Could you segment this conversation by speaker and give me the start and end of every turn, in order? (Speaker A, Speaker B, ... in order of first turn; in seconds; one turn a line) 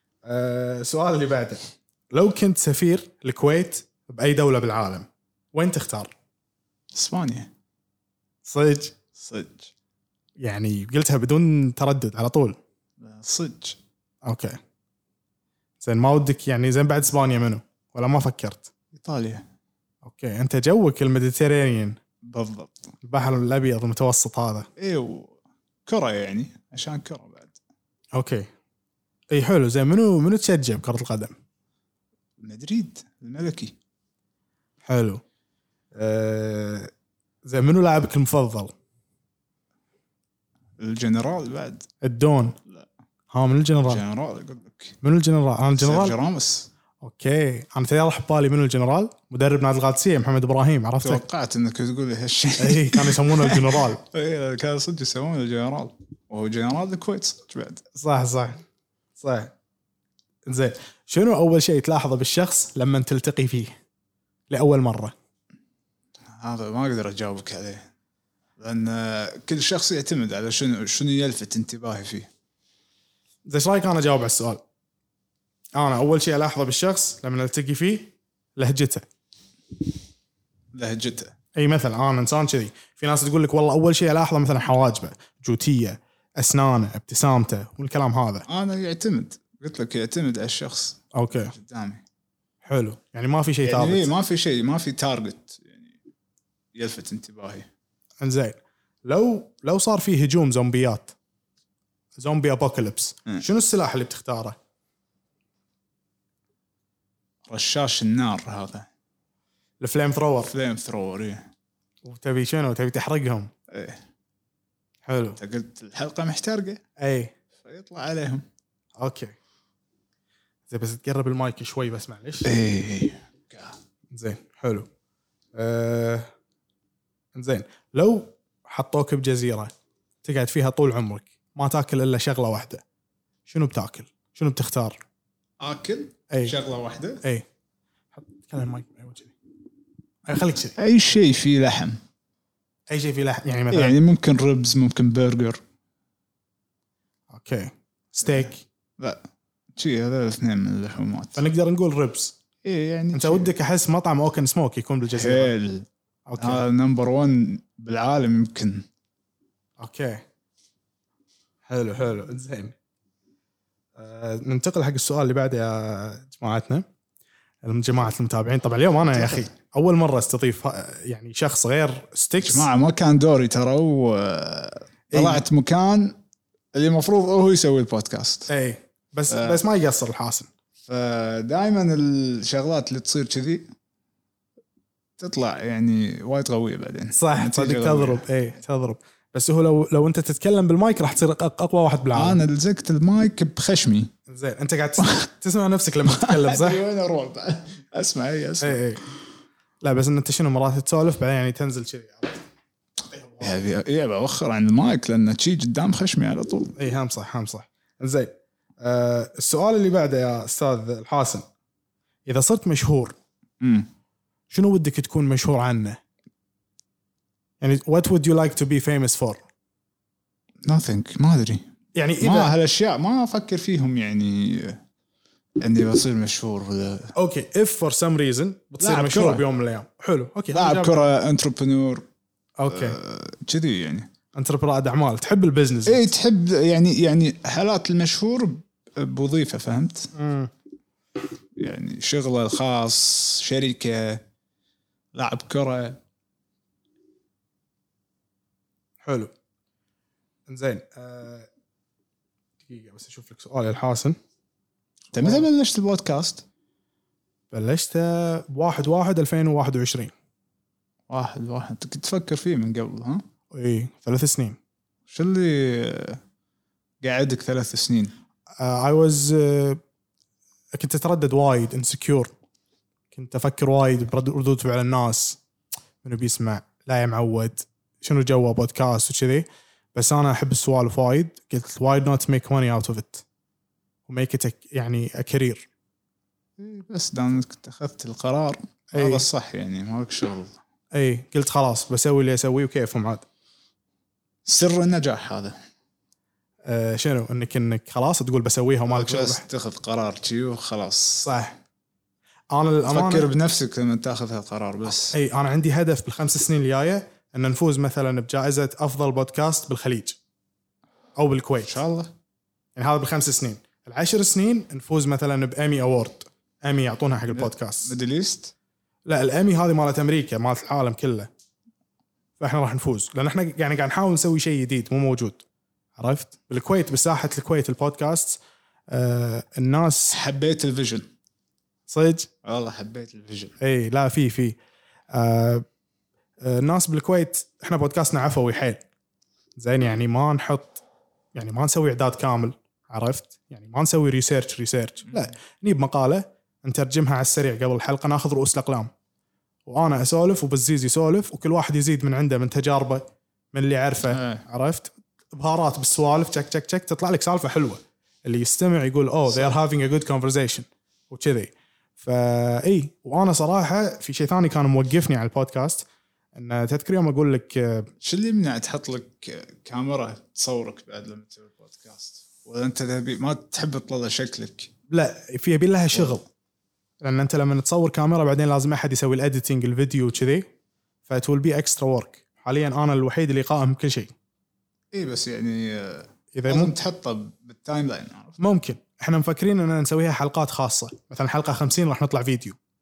Speaker A: 0.2-6.1
Speaker B: 6.9-7.5
Speaker A: 8.4-8.9
Speaker B: 9.1-9.7
Speaker A: 10.4-12.6
Speaker B: 13.0-13.8
Speaker A: 14.2-14.6
Speaker A: 15.8-18.7
Speaker B: 18.9-19.4
Speaker A: 20.0-22.0
Speaker B: 22.2-22.9
Speaker A: 23.0-24.7
Speaker B: 24.8-27.6
Speaker A: 28.1-28.5
Speaker A: 29.3-31.3
Speaker B: 32.4-33.7
Speaker A: 34.9-35.2
Speaker A: 35.9-36.9
Speaker A: 37.4-38.7
Speaker B: 40.8-41.9
Speaker A: 42.0-42.5
Speaker A: 43.3-44.0
Speaker B: 43.8-45.0
Speaker A: 45.0-46.1
Speaker B: 45.8-46.7
Speaker A: 47.0-51.2
Speaker B: 51.0-57.8
Speaker A: 52.6-54.0
Speaker A: 57.9-58.6
Speaker A: 59.2-59.5
Speaker A: 60.5-63.7
Speaker A: 64.5-65.1
Speaker B: 66.2-67.8
Speaker B: 68.6-72.3
Speaker A: 73.5-74.6
Speaker A: 75.7-79.0
Speaker B: 80.7-81.3
Speaker A: 81.5-88.5
Speaker B: 88.5-91.0
Speaker A: 91.1-91.5
Speaker B: 91.5-92.0
Speaker A: 92.6-94.1
Speaker B: 93.6-96.0
Speaker B: 96.7-97.7
Speaker A: 98.2-101.1
Speaker A: 102.2-104.6
Speaker B: 107.5-108.9
Speaker A: 109.8-110.5
Speaker B: 110.5-111.5
Speaker A: 112.0-113.5
Speaker B: 113.7-114.0
Speaker A: 115.0-115.4
Speaker B: 115.4-116.8
Speaker A: 117.0-117.3
Speaker B: 117.6-118.4
Speaker A: 119.0-119.3
Speaker A: 120.7-122.5
Speaker B: 122.4-123.8
Speaker A: 124.1-124.9
Speaker A: 125.5-126.3
Speaker A: 127.3-129.7
Speaker A: 130.2-132.8
Speaker A: 133.5-135.0
Speaker B: 135.6-137.2
Speaker A: 136.3-136.5
Speaker A: 138.1-139.3
Speaker A: 140.2-140.8
Speaker B: 140.8-142.0
Speaker A: 142.9-144.0
Speaker B: 143.7-145.6
Speaker A: 147.3-148.6
Speaker B: 148.2-149.2
Speaker B: 149.8-151.4
Speaker A: 151.3-152.3
Speaker B: 152.6-153.5
Speaker A: 153.1-155.5
Speaker B: 155.1-155.9
Speaker A: 156.3-156.6
Speaker B: 156.4-158.9
Speaker A: 159.8-160.2
Speaker A: 161.7-162.7
Speaker A: 164.0-166.8
Speaker A: 167.6-172.7
Speaker B: 169.1-169.4
Speaker B: 172.4-176.2
Speaker A: 175.1-175.4
Speaker B: 176.7-178.5
Speaker A: 178.5-180.5
Speaker B: 179.3-179.6
Speaker B: 180.8-183.7
Speaker B: 185.2-188.2
Speaker A: 187.1-192.4
Speaker B: 192.1-194.1
Speaker A: 194.3-196.8
Speaker B: 195.0-195.2
Speaker B: 196.1-199.0
Speaker A: 198.6-199.0
Speaker A: 199.8-202.4
Speaker A: 203.1-203.6
Speaker B: 203.4-206.7
Speaker A: 206.8-211.4
Speaker A: 212.3-213.2
Speaker B: 213.6-213.9
Speaker A: 214.5-216.0
Speaker A: 217.6-219.4
Speaker B: 220.6-221.6
Speaker A: 221.9-222.5
Speaker B: 222.2-224.8
Speaker B: 225.6-227.1
Speaker A: 227.1-231.0
Speaker B: 228.8-229.4
Speaker B: 230.5-232.1
Speaker A: 232.6-233.0
Speaker B: 232.7-234.1
Speaker A: 234.3-236.1
Speaker B: 235.8-240.1
Speaker A: 240.1-240.5
Speaker B: 241.6-244.2
Speaker B: 245.1-246.0
Speaker A: 249.0-249.3
Speaker A: 250.5-251.5
Speaker A: 252.6-254.2
Speaker B: 255.1-256.4
Speaker A: 255.2-255.4
Speaker A: 257.5-260.1
Speaker B: 261.1-263.2
Speaker A: 263.5-264.6
Speaker B: 265.1-266.2
Speaker B: 267.0-268.1
Speaker A: 268.6-269.8
Speaker A: 270.7-272.3
Speaker A: 273.1-275.4
Speaker A: 276.0-283.2
Speaker A: 284.1-285.7
Speaker B: 286.6-290.6
Speaker A: 288.9-289.2
Speaker A: 290.9-293.2
Speaker B: 294.4-295.6
Speaker A: 296.6-299.4
Speaker B: 298.9-301.3
Speaker A: 301.2-301.5
Speaker A: 302.5-303.3
Speaker B: 302.9-305.1
Speaker A: 305.1-310.2
Speaker A: 311.1-311.8
Speaker B: 311.6-312.1
Speaker A: 312.8-317.9
Speaker B: 317.3-318.5
Speaker A: 319.1-321.3
Speaker A: 322.4-325.4
Speaker A: 326.0-330.2
Speaker B: 330.1-331.1
Speaker A: 331.9-332.3
Speaker B: 332.4-333.6
Speaker A: 333.6-334.6
Speaker A: 335.1-335.6
Speaker A: 336.4-338.8
Speaker A: 339.6-340.8
Speaker A: 341.3-348.9
Speaker A: 349.7-367.9
Speaker B: 354.1-354.4
Speaker B: 359.3-359.5
Speaker B: 368.0-374.7
Speaker A: 374.9-376.2
Speaker A: 377.0-380.4
Speaker A: 381.1-384.1
Speaker B: 384.9-388.4
Speaker A: 386.3-386.7
Speaker A: 388.4-392.6